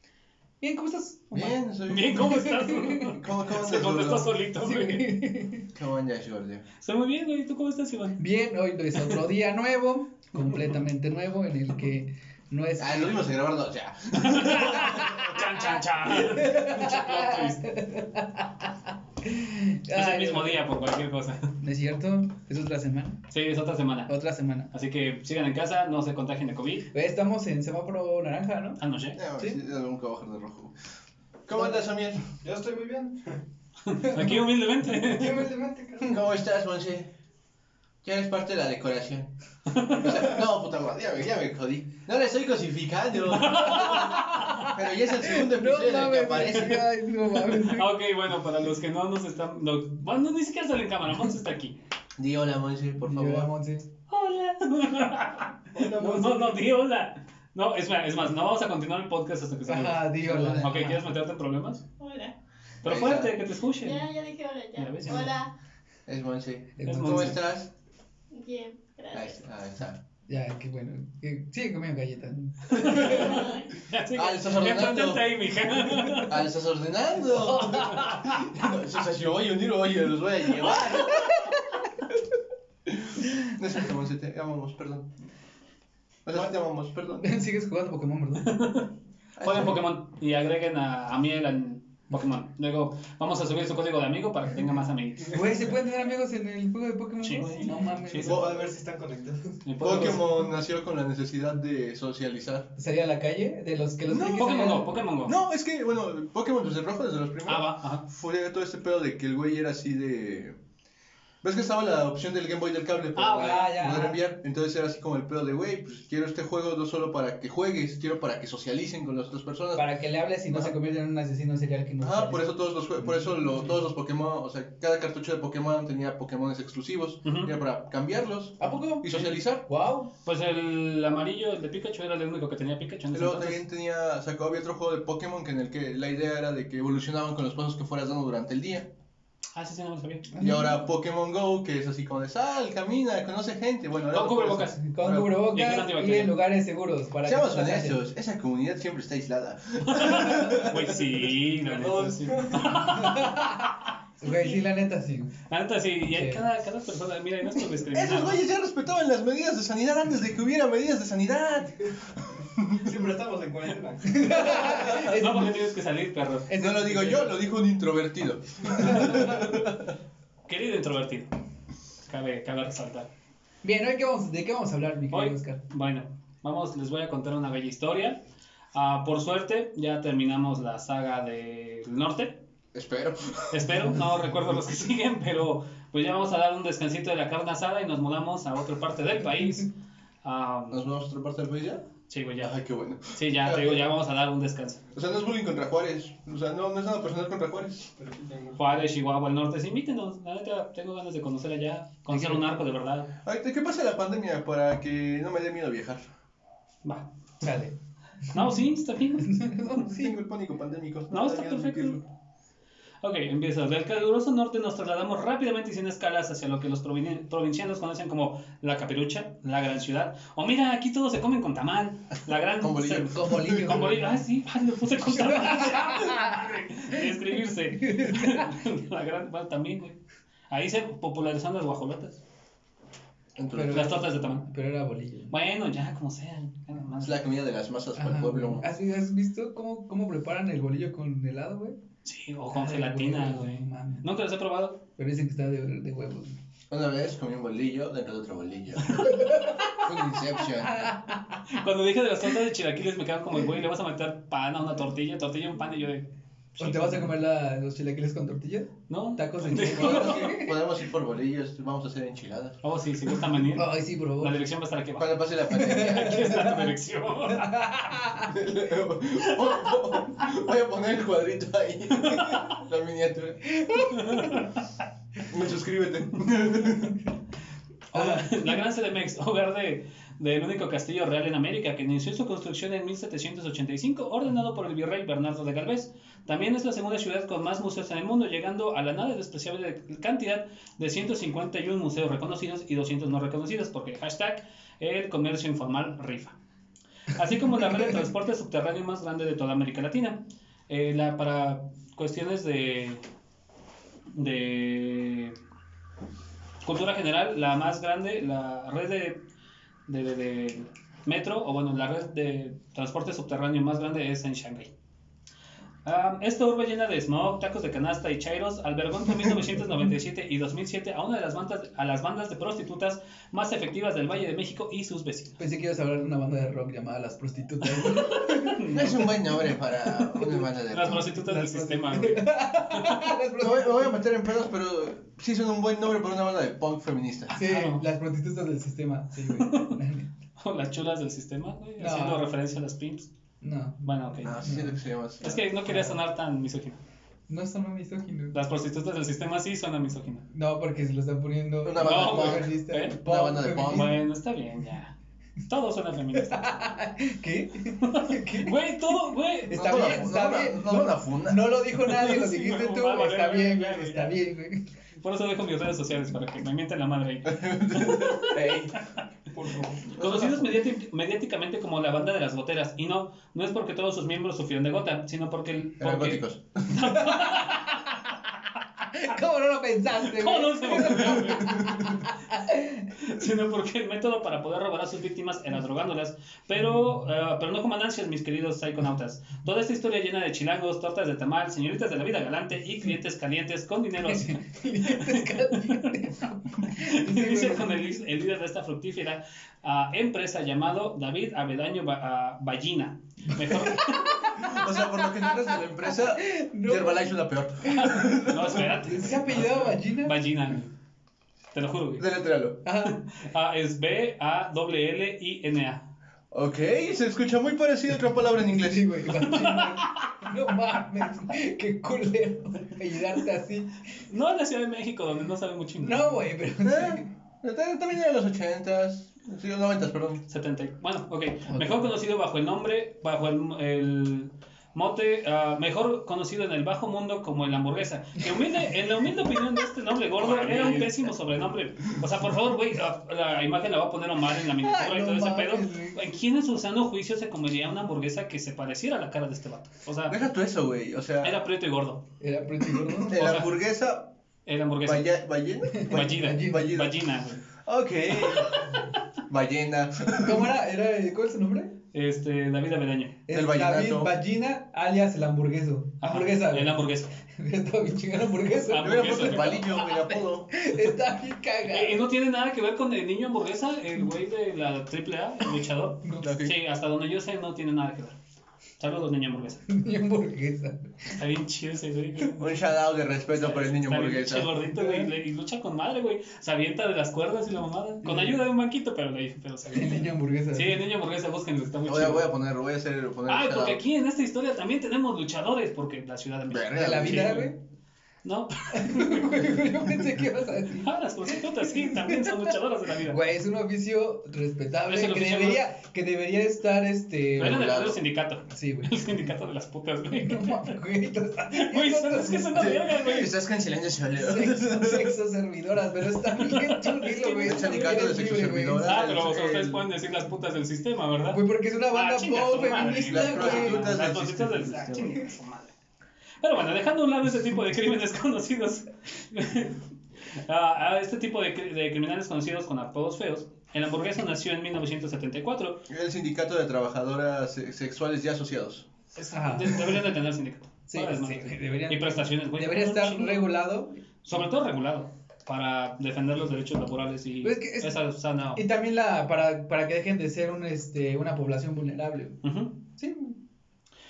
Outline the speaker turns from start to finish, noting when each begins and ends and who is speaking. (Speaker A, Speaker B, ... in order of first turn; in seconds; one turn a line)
Speaker A: 0.6-1.5
Speaker B: 1.3-4.3
Speaker C: 1.9-5.2
Speaker A: 2.2-3.1
Speaker A: 4.6-5.7
Speaker B: 5.7-6.6
Speaker C: 6.8-8.2
Speaker A: 8.2-13.2
Speaker C: 10.3-10.7
Speaker B: 12.8-15.4
Speaker C: 14.1-17.7
Speaker A: 14.6-20.6
Speaker C: 19.9-21.5
Speaker A: 21.6-23.2
Speaker C: 23.3-24.1
Speaker A: 24.1-24.7
Speaker C: 24.7-26.9
Speaker A: 26.9-28.8
Speaker C: 28.8-29.2
Speaker B: 29.1-30.7
Speaker B: 31.5-32.2
Speaker D: 32.4-33.3
Speaker C: 33.9-35.5
Speaker A: 34.0-34.4
Speaker D: 35.0-36.2
Speaker B: 36.0-37.1
Speaker B: 38.0-39.3
Speaker C: 39.7-40.1
Speaker B: 39.8-46.9
Speaker C: 43.3-44.2
Speaker A: 43.7-47.9
Speaker C: 47.5-51.8
Speaker B: 52.2-53.5
Speaker A: 53.0-53.9
Speaker C: 54.1-61.8
Speaker D: 55.7-56.6
Speaker A: 59.6-61.1
Speaker B: 60.2-60.8
Speaker E: 62.0-62.3
Speaker B: 62.8-63.3
Speaker C: 62.8-64.0
Speaker E: 63.8-65.5
Speaker C: 64.8-65.3
Speaker B: 66.1-67.7
Speaker A: 66.8-67.4
Speaker C: 66.8-67.4
Speaker E: 68.3-69.4
Speaker B: 69.1-70.0
Speaker A: 70.3-73.2
Speaker C: 72.7-76.4
Speaker B: 72.8-73.2
Speaker E: 73.0-73.7
Speaker B: 74.1-75.3
Speaker B: 76.2-81.4
Speaker A: 77.3-78.4
Speaker C: 80.7-81.4
Speaker B: 82.9-85.1
Speaker B: 86.2-87.3
Speaker A: 87.2-88.5
Speaker C: 88.4-95.5
Speaker B: 89.4-89.8
Speaker A: 95.3-98.4
Speaker C: 97.2-98.4
Speaker D: 98.1-99.6
Speaker B: 98.2-98.6
Speaker C: 99.6-100.4
Speaker B: 99.8-102.7
Speaker A: 102.8-105.0
Speaker B: 104.1-104.6
Speaker C: 104.3-105.4
Speaker B: 105.2-110.5
Speaker C: 107.5-108.0
Speaker B: 111.4-119.8
Speaker C: 113.2-113.8
Speaker A: 113.3-114.2
Speaker A: 119.7-123.5
Speaker B: 120.5-120.7
Speaker B: 122.0-129.6
Speaker C: 127.2-127.5
Speaker A: 128.6-130.1
Speaker C: 130.2-133.6
Speaker B: 133.1-138.9
Speaker C: 139.5-140.3
Speaker A: 140.3-140.7
Speaker B: 140.4-145.3
Speaker C: 144.1-146.3
Speaker A: 144.8-148.0
Speaker B: 147.2-151.1
Speaker C: 149.8-153.6
Speaker D: 151.6-153.0
Speaker A: 153.0-155.3
Speaker E: 154.2-154.6
Speaker C: 155.5-158.4
Speaker A: 156.1-156.4
Speaker B: 157.9-163.0
Speaker D: 162.8-164.9
Speaker A: 164.1-165.7
Speaker C: 164.6-166.5
Speaker B: 164.7-165.2
Speaker A: 166.5-167.4
Speaker B: 166.6-169.9
Speaker A: 168.8-169.1
Speaker C: 168.9-169.5
Speaker C: 170.5-171.3
Speaker C: 172.0-173.1
Speaker A: 173.6-175.6
Speaker C: 175.1-178.2
Speaker C: 178.7-182.4
Speaker B: 182.7-183.9
Speaker C: 183.5-189.7
Speaker C: 190.2-190.8
Speaker B: 190.7-191.9
Speaker C: 192.1-194.8
Speaker B: 192.4-193.9
Speaker B: 194.9-197.9
Speaker D: 198.0-198.8
Speaker C: 198.6-203.1
Speaker A: 202.1-202.4
Speaker B: 203.2-206.1
Speaker C: 206.8-207.4
Speaker A: 207.4-207.7
Speaker A: 208.3-208.6
Speaker C: 208.3-209.4
Speaker A: 209.2-210.2
Speaker B: 209.7-212.0
Speaker C: 211.1-212.0
Speaker C: 213.0-230.0
Speaker B: 222.6-223.9
Speaker A: 223.0-224.2
Speaker A: 225.1-228.6
Speaker C: 230.5-232.2
Speaker B: 233.3-234.0
Speaker A: 233.5-235.3
Speaker C: 233.7-234.4
Speaker C: 235.3-237.2
Speaker B: 237.0-238.7
Speaker A: 237.9-241.8
Speaker C: 242.0-244.8
Speaker A: 242.5-244.0
Speaker A: 245.0-246.4
Speaker B: 246.7-250.9
Speaker A: 249.0-249.8
Speaker A: 250.6-251.4
Speaker C: 251.5-257.1
Speaker A: 256.6-260.6
Speaker C: 258.9-260.3
Speaker B: 259.7-262.6
Speaker C: 262.6-267.8
Speaker A: 263.4-264.4
Speaker B: 264.9-266.5
Speaker A: 265.5-266.7
Speaker A: 267.2-268.3
Speaker B: 268.3-273.5
Speaker C: 272.1-272.5
Speaker A: 273.5-274.4
Speaker C: 273.8-274.7
Speaker B: 275.3-277.0
Speaker C: 277.9-296.4
Speaker A: 277.9-278.6
Speaker C: 297.1-303.0
Speaker C: 304.1-305.4
Speaker C: 306.6-309.2
Speaker C: 309.9-314.7
Speaker C: 315.8-325.4
Speaker A: 325.4-328.9
Speaker C: 327.8-329.1
Speaker B: 328.7-331.1
Speaker C: 330.7-333.0
Speaker A: 331.0-334.0
Speaker B: 333.4-337.3
Speaker C: 337.3-337.8
Speaker A: 337.3-340.1
Speaker C: 339.2-339.8
Speaker C: 340.4-343.1
Speaker A: 341.8-342.2
Speaker A: 343.4-344.8
Speaker C: 343.8-344.5
Speaker B: 344.2-345.4
Speaker C: 345.2-346.8
Speaker A: 345.7-346.0
Speaker A: 347.3-348.3
Speaker C: 348.3-350.2
Speaker A: 350.3-354.0
Speaker B: 351.6-353.9
Speaker C: 351.8-353.0
Speaker C: 353.6-354.9
Speaker C: 355.5-356.7
Speaker A: 356.1-364.6
Speaker C: 357.8-359.9
Speaker B: 359.5-361.5
Speaker C: 361.8-364.1
Speaker C: 365.0-369.0
Speaker B: 367.2-368.8
Speaker D: 369.3-369.9
Speaker B: 369.9-370.5
Speaker C: 370.0-377.8
Speaker B: 375.8-376.7
Speaker A: 376.8-378.0
Speaker A: 378.9-382.9
Speaker C: 380.0-382.0
Speaker C: 383.0-396.0
Speaker A: 394.0-398.0
Speaker C: 396.6-404.4
Speaker A: 403.4-410.2
Speaker B: 404.4-408.6
Speaker C: 407.6-410.7
Speaker C: 411.5-412.1
Speaker B: 412.0-412.6
Speaker A: 412.6-413.0
Speaker C: 412.8-415.9
Speaker B: 416.3-419.0
Speaker A: 418.2-423.8
Speaker C: 419.1-420.1
Speaker C: 424.1-426.2
Speaker A: 425.8-427.1
Speaker B: 426.6-430.2
Speaker C: 430.3-450.2
Speaker B: 440.2-441.1
Speaker A: 444.6-446.0
Speaker B: 450.1-451.4
Speaker C: 451.2-452.0
Speaker A: 452.2-453.3
Speaker B: 452.9-454.1
Speaker C: 453.1-453.5
Speaker C: 454.4-455.1
Speaker B: 454.8-456.9
Speaker A: 455.7-456.8
Speaker C: 455.8-457.4
Speaker B: 457.5-458.7
Speaker B: 459.3-460.5
Speaker A: 460.1-461.7
Speaker C: 461.9-463.2
Speaker A: 463.3-472.1
Speaker B: 463.3-464.1
Speaker C: 466.0-467.1
Speaker C: 468.7-469.6
Speaker B: 468.8-470.5
Speaker C: 471.6-478.2
Speaker B: 476.2-476.6
Speaker C: 478.8-479.6
Speaker A: 479.7-481.1
Speaker C: 481.1-482.5
Speaker B: 482.3-484.6
Speaker C: 483.3-492.3
Speaker A: 484.6-485.1
Speaker A: 488.0-488.4
Speaker A: 489.7-490.8
Speaker B: 491.8-493.8
Speaker C: 493.3-497.5
Speaker B: 496.5-497.4
Speaker A: 496.7-497.6
Speaker C: 498.2-499.5
Speaker A: 498.7-507.7
Speaker C: 500.8-503.2
Speaker C: 504.9-505.6
Speaker B: 507.4-508.0
Speaker C: 507.4-510.8
Speaker A: 508.5-509.3
Speaker A: 510.1-512.8
Speaker C: 511.5-513.3
Speaker B: 512.5-515.1
Speaker A: 514.1-519.0
Speaker C: 516.4-518.0
Speaker B: 517.4-519.9
Speaker C: 518.9-525.7
Speaker A: 521.3-523.9
Speaker B: 523.1-525.2
Speaker C: 526.4-529.8
Speaker C: 530.4-535.9
Speaker B: 535.9-538.9
Speaker C: 539.1-543.5
Speaker A: 539.3-540.0
Speaker A: 540.9-544.0
Speaker C: 544.2-548.6
Speaker A: 547.4-548.0
Speaker A: 548.5-552.4
Speaker C: 552.4-552.8
Speaker A: 553.0-553.4